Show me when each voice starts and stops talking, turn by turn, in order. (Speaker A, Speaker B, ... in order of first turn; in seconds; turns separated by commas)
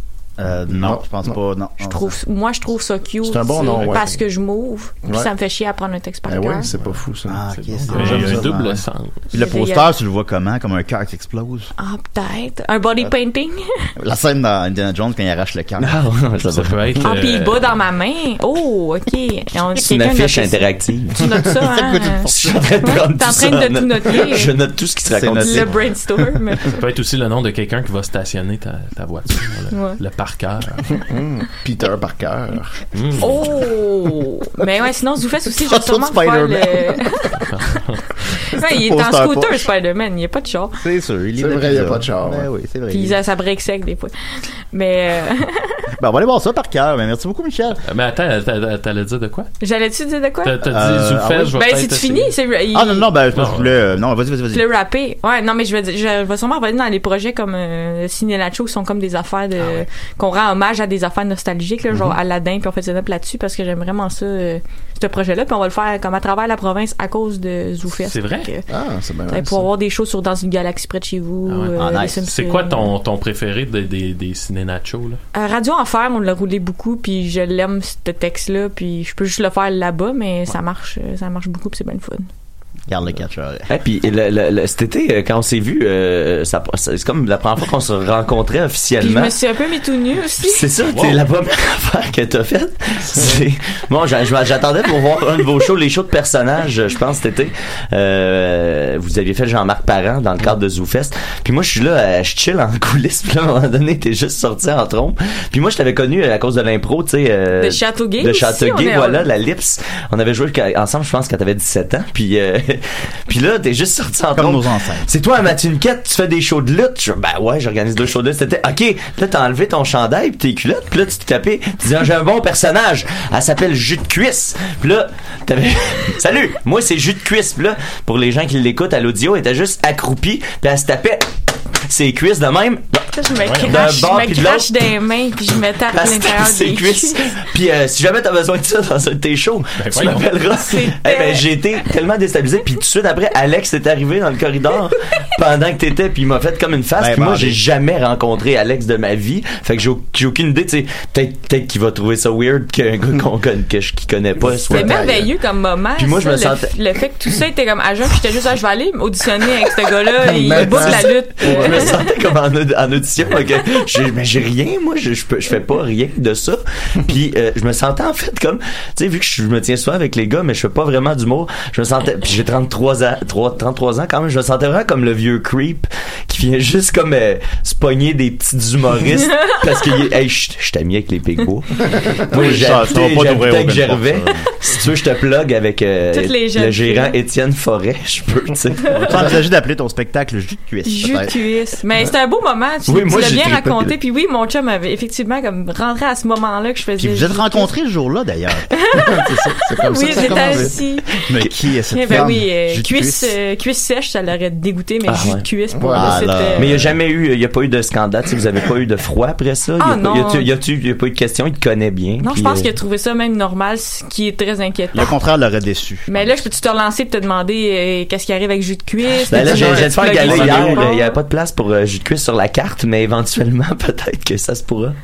Speaker A: 0.4-2.2, Speaker B: 0.7-1.4, Speaker C: 1.8-6.7, Speaker B: 3.2-4.2, Speaker B: 6.3-7.4, Speaker A: 7.3-11.7, Speaker D: 7.5-9.2, Speaker B: 7.9-8.5, Speaker C: 8.0-8.3, Speaker C: 9.3-9.9, Speaker C: 11.8-13.7, Speaker A: 14.0-16.0, Speaker E: 15.8-16.8, Speaker D: 16.5-17.8, Speaker C: 17.0-22.3, Speaker E: 19.8-21.2, Speaker A: 21.6-22.6, Speaker E: 22.3-25.7, Speaker C: 22.8-24.5, Speaker A: 25.1-25.9, Speaker C: 25.4-26.8, Speaker D: 26.8-31.0, Speaker C: 29.7-30.0, Speaker B: 31.0-32.9, Speaker D: 32.9-33.5, Speaker C: 33.2-37.4, Speaker A: 35.5-37.0, Speaker D: 37.4-38.1, Speaker C: 38.5-40.8, Speaker A: 38.6-39.7, Speaker A: 40.8-43.2, Speaker B: 41.4-42.5, Speaker C: 42.9-44.1, Speaker C: 44.7-45.8, Speaker A: 46.0-47.8, Speaker D: 47.9-49.5, Speaker C: 49.6-50.6, Speaker D: 50.4-52.3, Speaker A: 50.6-51.6, Speaker C: 51.5-53.1, Speaker A: 52.7-54.7, Speaker D: 53.3-53.8, Speaker C: 54.5-68.7, Speaker D: 68.0-68.5, Speaker B: 68.7-69.7, Speaker C: 69.3-72.9, Speaker D: 71.5-75.2, Speaker A: 71.8-72.2, Speaker C: 75.3-82.3, Speaker A: 82.9-83.7, Speaker E: 83.7-89.4, Speaker C: 89.0-90.7, Speaker E: 90.4-131.3, Speaker D: 90.8-91.2, Speaker B: 93.1-93.4, Speaker C: 107.6-109.2, Speaker A: 114.3-115.1, Speaker E: 131.9-133.1, Speaker C: 133.1-137.2, Speaker D: 133.4-133.7, Speaker E: 133.6-134.7, Speaker E: 135.9-155.1, Speaker D: 139.8-140.3, Speaker C: 140.6-141.5, Speaker A: 147.0-147.6, Speaker B: 154.6-155.2, Speaker C: 154.7-162.0, Speaker E: 156.0-156.7, Speaker B: 160.2-162.0, Speaker E: 160.6-189.2, Speaker B: 181.9-182.2, Speaker A: 182.3-184.5, Speaker C: 186.1-187.2, Speaker A: 189.0-191.3, Speaker C: 190.8-197.7, Speaker E: 192.9-193.9, Speaker A: 197.0-198.7, Speaker C: 198.7-199.3, Speaker B: 199.0-200.8, Speaker C: 199.8-201.1, Speaker A: 200.2-200.6, Speaker A: 201.3-203.4, Speaker C: 201.9-206.7, Speaker B: 202.1-202.3, Speaker E: 205.1-205.4, Speaker B: 205.7-206.3, Speaker A: 205.9-206.8, Speaker E: 206.6-212.7, Speaker C: 209.8-210.5, Speaker C: 212.2-215.2, Speaker A: 214.9-216.4, Speaker C: 216.1-221.2, Speaker E: 219.3-225.0, Speaker B: 219.4-219.9, Speaker D: 220.2-220.6